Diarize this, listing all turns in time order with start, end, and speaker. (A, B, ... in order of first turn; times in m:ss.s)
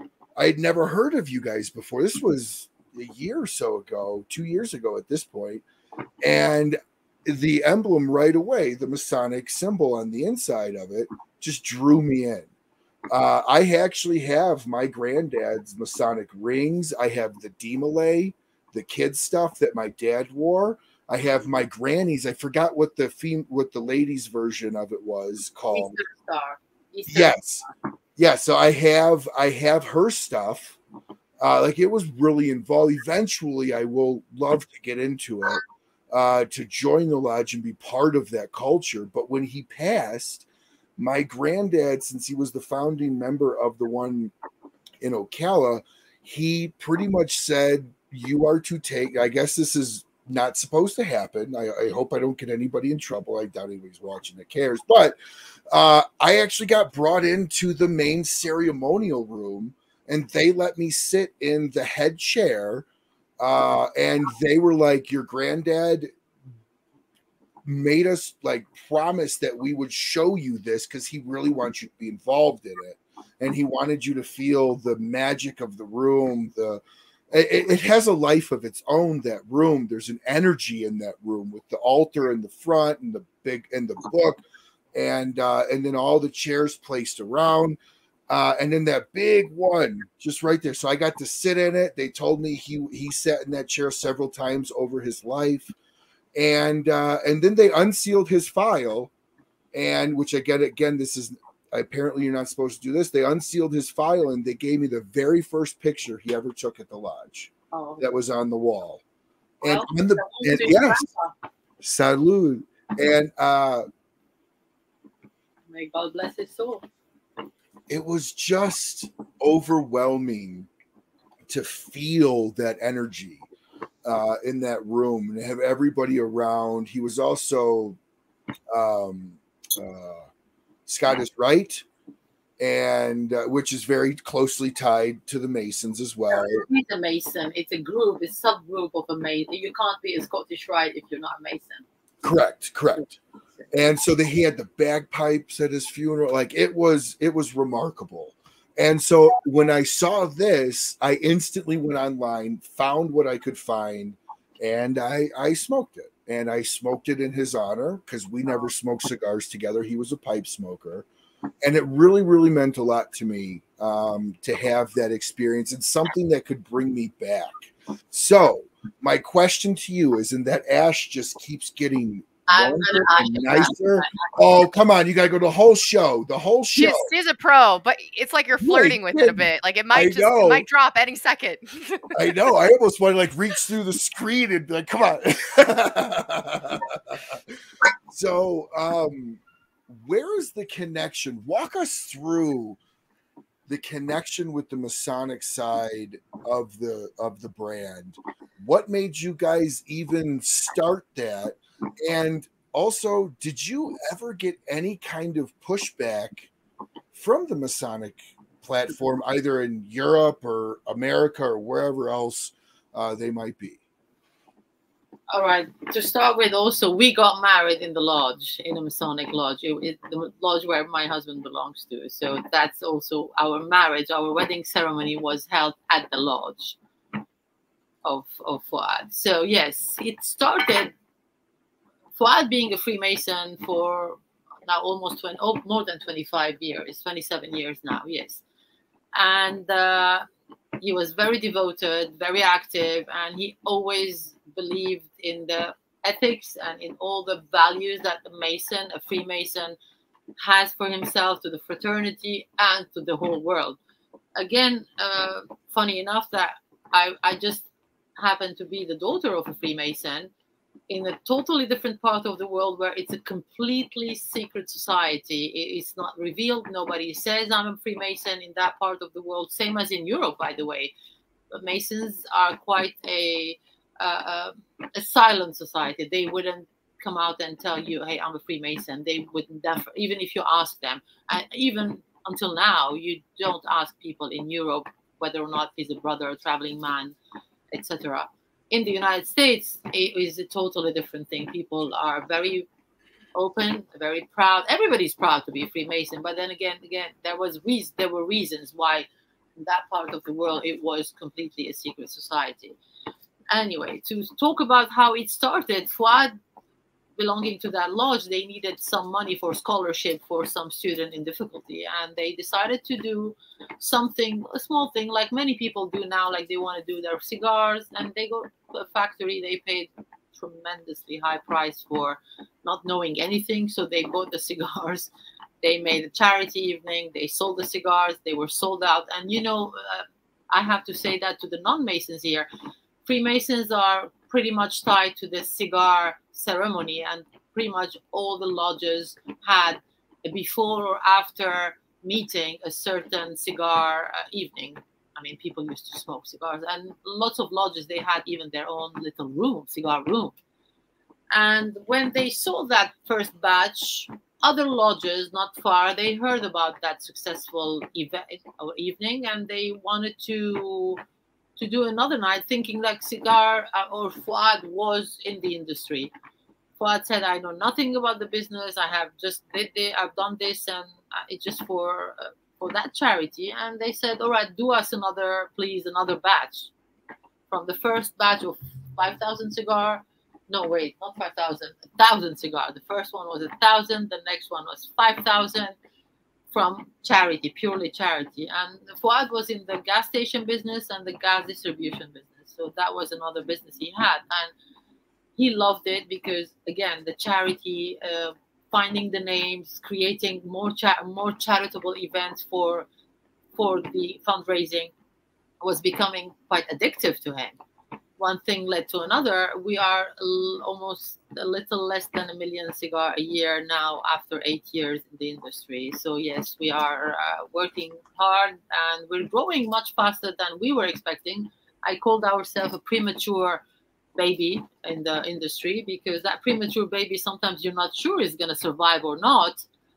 0:00.4-0:05.6 A
0:06.2-0:12.5 A
0:13.1-0:26.0 A
0:25.7-0:27.7 B
0:27.1-0:27.6 A
0:28.2-0:30.8 A
0:31.4-0:40.4 A
0:41.0-0:44.3 A
0:45.0-0:55.2 A
0:55.7-1:02.8 A
1:03.4-1:06.1 A
1:07.6-1:16.8 A
1:17.3-1:24.4 A
1:24.9-1:27.8 A
1:28.3-1:35.7 A
1:36.4-1:39.1 A
1:39.7-1:49.0 A
1:47.7-1:48.1 B
1:49.6-1:51.1 A
1:49.6-1:51.3 B
1:51.8-1:53.8 A
1:55.7-1:56.8 B
1:57.9-2:00.7 A
2:01.5-2:03.4 A
2:04.0-2:08.0 A
2:08.7-2:10.3 A
2:10.9-2:11.8 A
2:12.6-2:16.6 A
2:16.3-2:21.8 B
2:22.2-2:23.1 A
2:23.0-2:23.7 B
2:23.7-2:41.1 A
2:41.6-2:57.1 A
2:52.5-2:54.3 B
2:56.8-3:02.3 C
2:58.6-3:00.7 A
3:02.2-3:07.4 A
3:08.1-3:12.8 A
3:13.7-3:26.5 A
3:27.1-3:33.8 A
3:35.3-3:46.8 B
3:48.0-3:50.9 B
3:52.2-3:58.4 B
3:59.2-4:00.3 B
4:00.8-4:09.8 B
4:10.4-4:13.8 B
4:14.4-4:20.3 B
4:20.9-4:30.9 B
4:31.5-4:47.2 B
4:47.7-4:52.7 B
4:53.4-4:59.1 B
4:59.6-5:02.8 B
5:03.5-5:06.4 B
5:07.2-5:25.1 B
5:25.6-5:32.5 B
5:33.1-5:50.4 B
5:51.3-6:01.0 B
6:01.6-6:06.1 B
6:06.8-6:16.7 B
6:17.5-6:25.8 B
6:26.5-6:34.5 B
6:35.4-6:42.9 B
6:43.6-6:44.9 B
6:45.6-6:47.6 B
6:48.2-7:03.6 B
7:04.2-7:09.6 B